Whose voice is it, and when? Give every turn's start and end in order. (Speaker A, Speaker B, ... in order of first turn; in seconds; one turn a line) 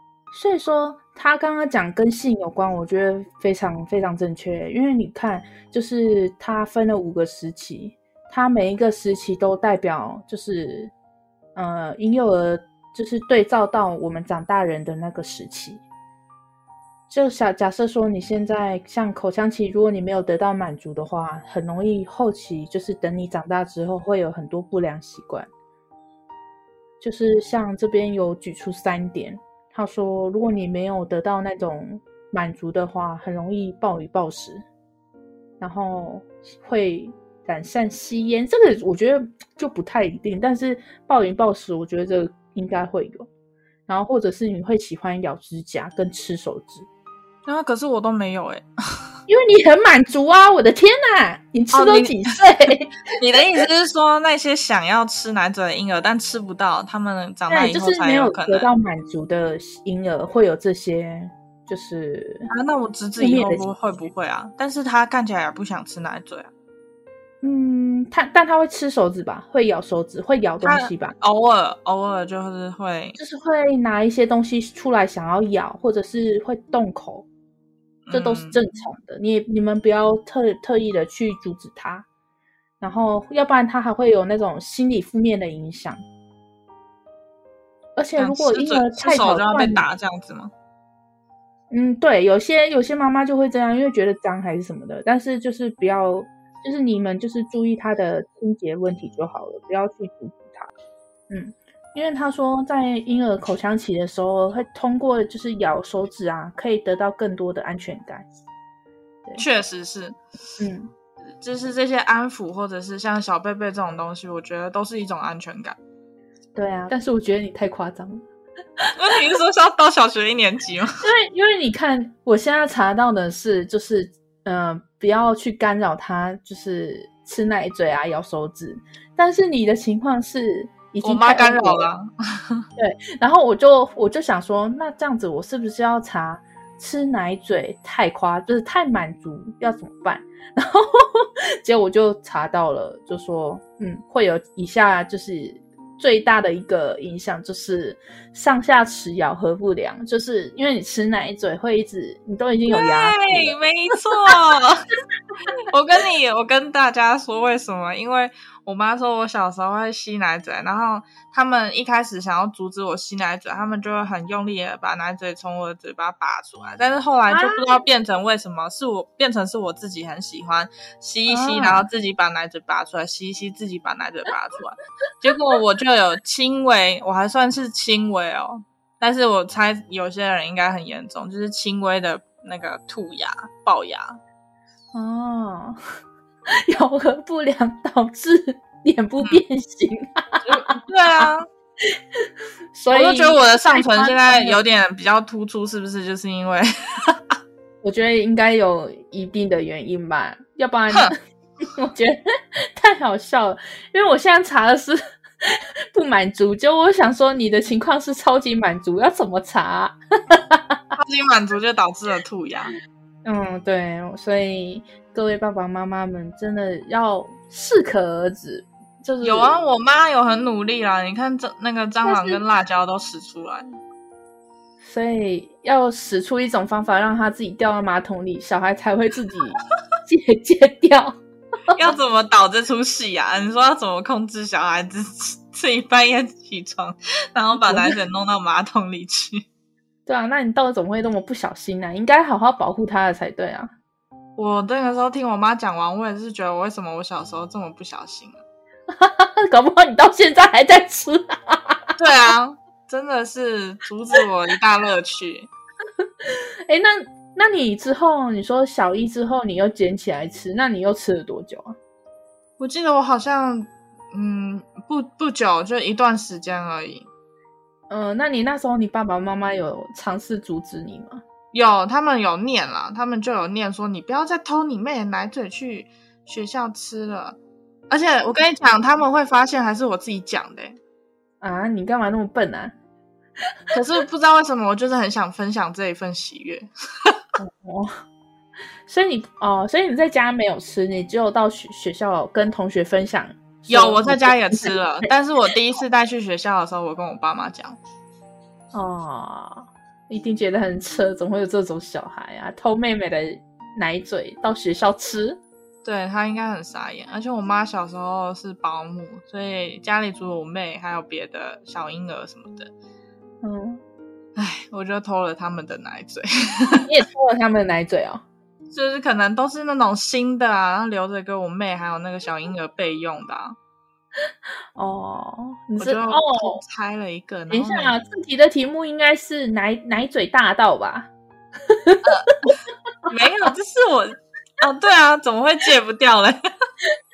Speaker A: 0.3-10.9
Speaker A: 11.6-15.8
Speaker A: 17.1-25.5
Speaker A: 27.0-34.6
Speaker A: 35.6-43.3
Speaker A: 43.9-46.9
Speaker B: 47.4-48.6
Speaker A: 49.3-53.0
Speaker B: 51.7-52.4
Speaker B: 53.1-58.7
Speaker A: 57.5-62.5
Speaker B: 62.5-66.5
Speaker A: 63.2-63.7
Speaker A: 67.4-71.1
Speaker B: 70.6-73.2
Speaker A: 73.2-77.2
Speaker B: 78.1-78.6
Speaker A: 78.1-82.0
Speaker A: 82.8-86.0
Speaker A: 88.0-89.8
Speaker B: 88.2-90.5
Speaker A: 91.7-100.7
Speaker A: 101.3-108.3
Speaker B: 109.4-110.2
Speaker A: 110.6-110.9
Speaker B: 111.4-115.8
Speaker A: 116.5-118.2
Speaker A: 118.8-119.2
Speaker B: 119.0-121.0
Speaker A: 121.0-131.9
Speaker B: 131.0-132.6
Speaker A: 132.8-153.6
Speaker B: 152.7-154.8
Speaker B: 155.7-184.2
Speaker A: 167.3-167.7
Speaker A: 171.3-171.9
Speaker A: 184.9-185.8
Speaker A: 186.5-190.7
Speaker B: 190.4-191.5
Speaker A: 191.9-194.6
Speaker B: 192.9-197.2
Speaker A: 197.8-202.2
Speaker A: 202.7-210.8
Speaker B: 210.9-212.7
Speaker A: 213.2-219.6
Speaker B: 219.2-223.8
Speaker A: 222.0-222.4
Speaker A: 224.8-231.1
Speaker B: 231.7-239.4
Speaker A: 237.6-237.9
Speaker A: 240.1-243.7
Speaker B: 244.4-248.4
Speaker A: 248.9-251.9
Speaker B: 252.0-255.5
Speaker A: 256.2-261.7
Speaker B: 262.6-267.1
Speaker A: 267.9-271.2
Speaker B: 271.5-277.4
Speaker B: 277.9-280.8
Speaker A: 281.4-282.7
Speaker B: 283.7-287.2
Speaker A: 287.4-288.0
Speaker A: 288.9-295.1
Speaker B: 293.7-297.8
Speaker A: 298.7-305.4
Speaker B: 305.8-312.7
Speaker A: 313.4-313.8
Speaker B: 314.4-316.8
Speaker A: 316.7-318.2
Speaker B: 318.7-323.6
Speaker A: 324.8-326.6
Speaker B: 325.8-327.9
Speaker A: 327.5-331.1
Speaker A: 331.7-332.0
Speaker B: 332.0-332.6
Speaker B: 333.1-336.4